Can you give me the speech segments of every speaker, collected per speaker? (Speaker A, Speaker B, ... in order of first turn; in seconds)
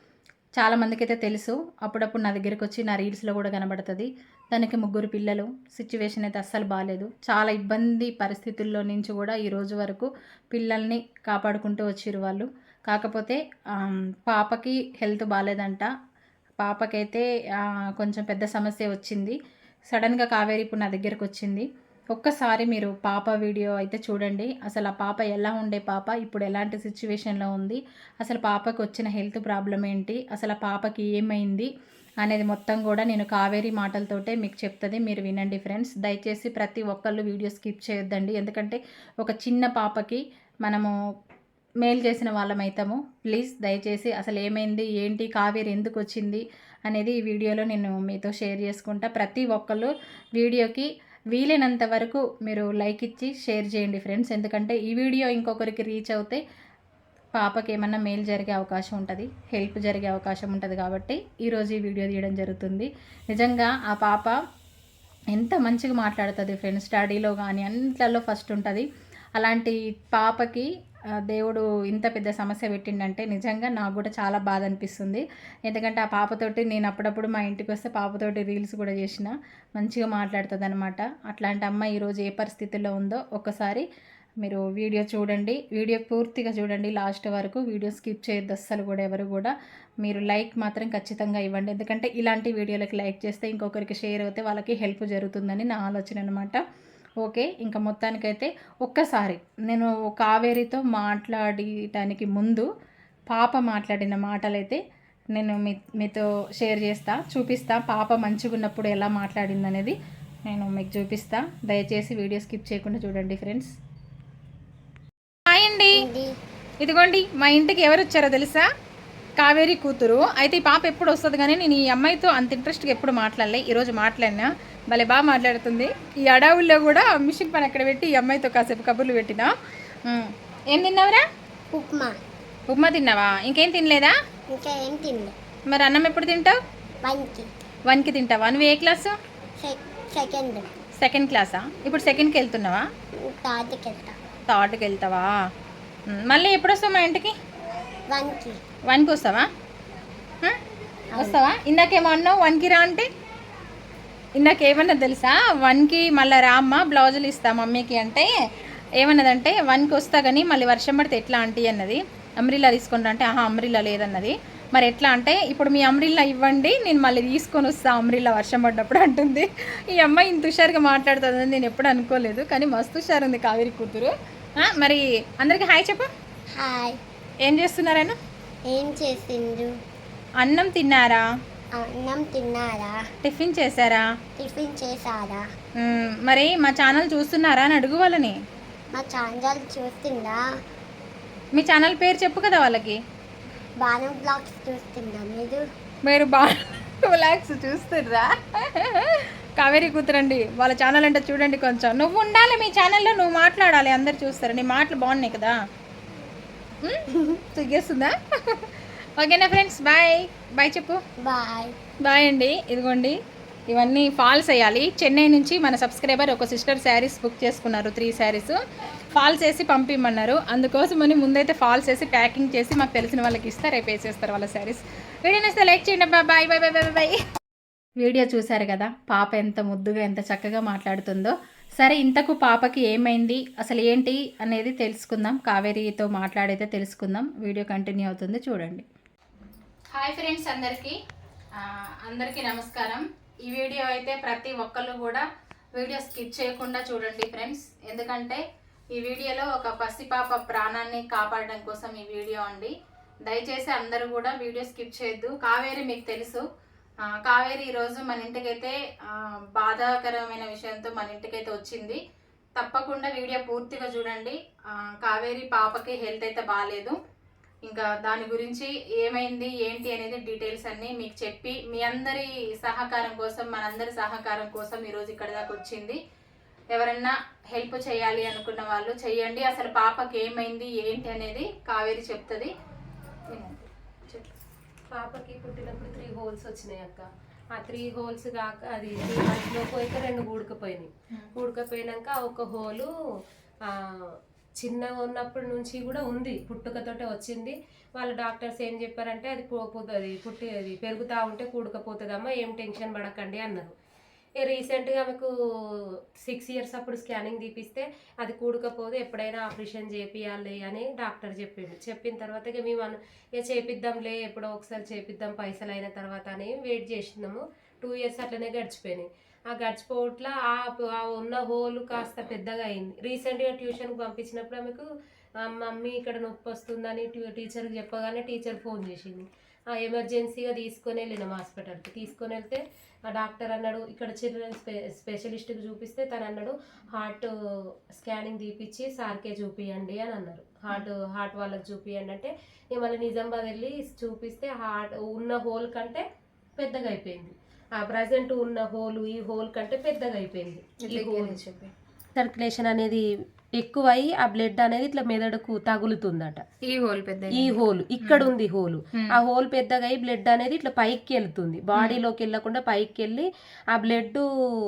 Speaker A: 0.6-15.9, 16.6-17.2, 18.0-19.4, 19.9-31.7, 32.2-40.9, 41.8-56.4, 57.4-64.3, 65.3-70.7, 71.3-83.8, 84.4-96.6, 97.2-102.7, 103.3-104.8, 105.3-109.9, 110.5-113.7, 115.5-116.1, 116.8-118.6, 119.4-129.5, 130.1-131.2, 132.7-134.1, 135.7-136.6, 137.9-139.1, 141.0-142.8, 144.5-145.3, 146.1-147.3, 148.9-149.4, 151.2-153.1, 154.3-158.3, 159.0-176.1, 177.4-178.2, 180.4-181.2, 183.2-184.0, 185.8-188.3, 191.5-193.0, 196.1-205.5, 206.8-211.0, 212.0-213.2, 213.7-218.6, 219.2-227.2, 228.0-238.8, 239.9-240.9, 241.6-248.4, 248.9-252.7, 253.2-256.4, 257.1-262.0, 262.6-267.0, 267.6-276.0, 276.7-282.5, 283.3-284.3, 350.8-351.7, 356.6-358.3
Speaker B: 115.9-116.3, 131.7-132.1, 134.5-135.3, 137.0-137.5, 139.6-140.7, 143.3-144.2, 148.1-148.6, 151.1-151.4, 176.5-177.0, 178.7-179.7, 181.8-182.9, 184.4-185.4, 188.9-190.4, 193.8-195.6, 211.2-211.8
Speaker C: 284.9-292.9, 293.7-303.7, 304.4-324.9, 325.4-337.3, 337.9-346.0, 346.6-351.4, 352.2-353.0, 353.6-356.4, 357.3-364.2